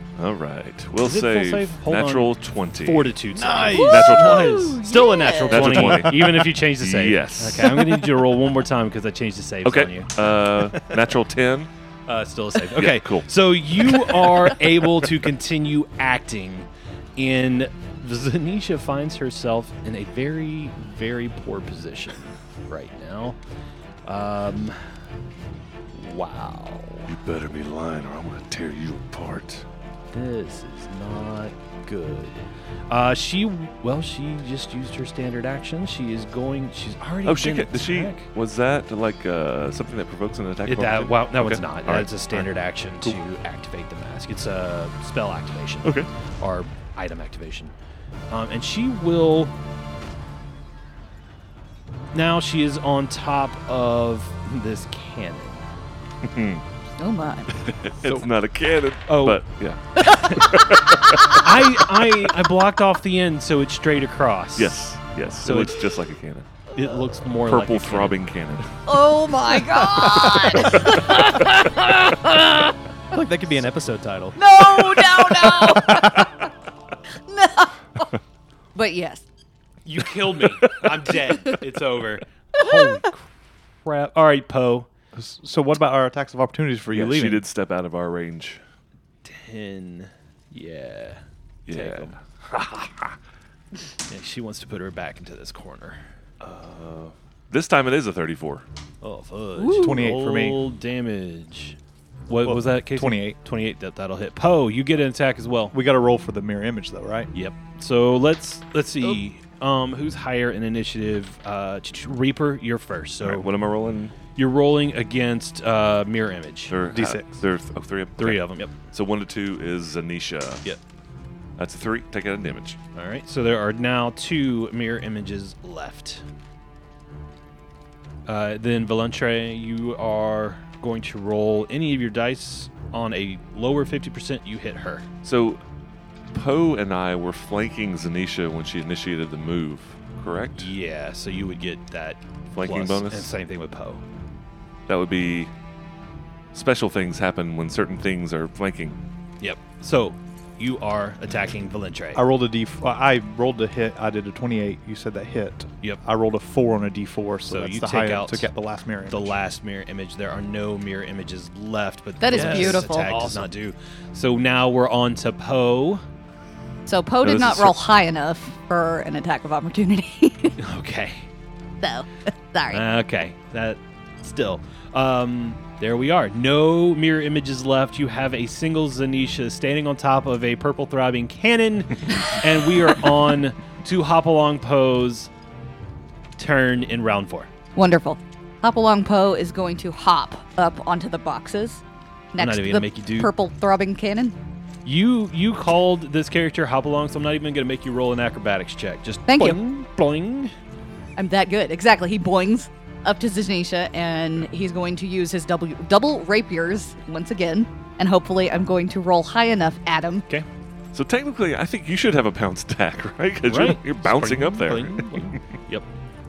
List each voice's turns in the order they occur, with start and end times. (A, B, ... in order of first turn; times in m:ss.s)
0:00.2-0:03.1 A
0:01.0-0:10.1 B
0:03.4-0:04.5 C
0:03.5-0:05.8 D
0:03.7-0:04.8 A
0:05.5-0:08.0 A
0:09.6-0:11.7 A
0:10.7-0:11.0 B
0:12.1-0:23.4 B
0:12.7-0:13.3 A
0:13.8-0:14.1 A
0:24.0-0:24.9 B
0:25.9-0:27.1 B
0:27.1-0:29.6 A
0:30.1-0:38.3 B
0:37.2-0:42.5 A
0:40.6-0:47.7 B
0:48.3-0:49.5 B
0:52.1-0:55.6 B
0:56.2-0:56.6 A
0:57.0-0:57.5 D
0:57.6-1:01.5 A
0:59.1-0:59.4 B
1:00.0-1:00.5 B
1:01.3-1:04.8 B
1:04.6-1:06.5 A
1:05.4-1:05.8 B
1:06.7-1:08.2 B
1:07.4-1:08.7 A
1:08.8-1:12.6 D
1:10.2-1:11.0 A
1:13.1-1:14.4 C
1:14.4-1:16.5 D
1:17.3-1:18.1 D
1:18.7-1:19.2 D
1:19.8-1:23.3 B
1:20.6-1:20.9 A
1:22.6-1:23.0 D
1:23.8-1:24.9 B
1:25.1-1:27.4 E
1:26.9-1:28.6 A
1:29.2-1:32.2 B
1:31.7-1:33.1 A
1:34.1-1:36.0 B
1:36.4-1:38.6 A
1:39.0-1:41.8 B
1:39.6-1:40.0 D
1:39.8-1:40.6 E
1:42.3-1:45.8 B
1:42.4-1:43.4 E
1:45.7-1:47.3 E
1:47.3-1:53.5 B
1:53.2-1:54.2 A
1:54.3-1:56.7 B
1:56.7-2:00.6 A
1:56.9-1:57.4 E
1:58.2-1:58.7 B
2:01.6-2:02.8 A
2:02.9-2:06.2 B
2:08.2-2:15.1 B
2:15.2-2:15.6 A
2:16.3-2:20.7 A
2:20.6-2:24.0 B
2:22.5-2:23.3 A
2:24.9-2:25.5 A
2:26.5-2:29.0 A
2:29.4-2:32.2 B
2:32.1-2:39.3 E
2:37.5-2:38.5 B
2:39.1-2:46.0 B
2:42.2-2:43.3 D
2:42.3-2:43.5 C
2:46.8-2:50.6 D
2:47.2-2:47.8 A
2:50.6-2:51.3 B
2:51.8-2:52.8 D
2:52.7-3:05.3 B
3:06.4-3:07.5 B
3:07.8-3:11.8 D
3:12.3-3:14.4 D
3:12.4-3:13.3 B
3:14.8-3:20.5 B
3:19.3-3:19.6 D
3:21.2-3:30.2 D
3:30.9-3:35.4 A
3:33.5-3:35.9 B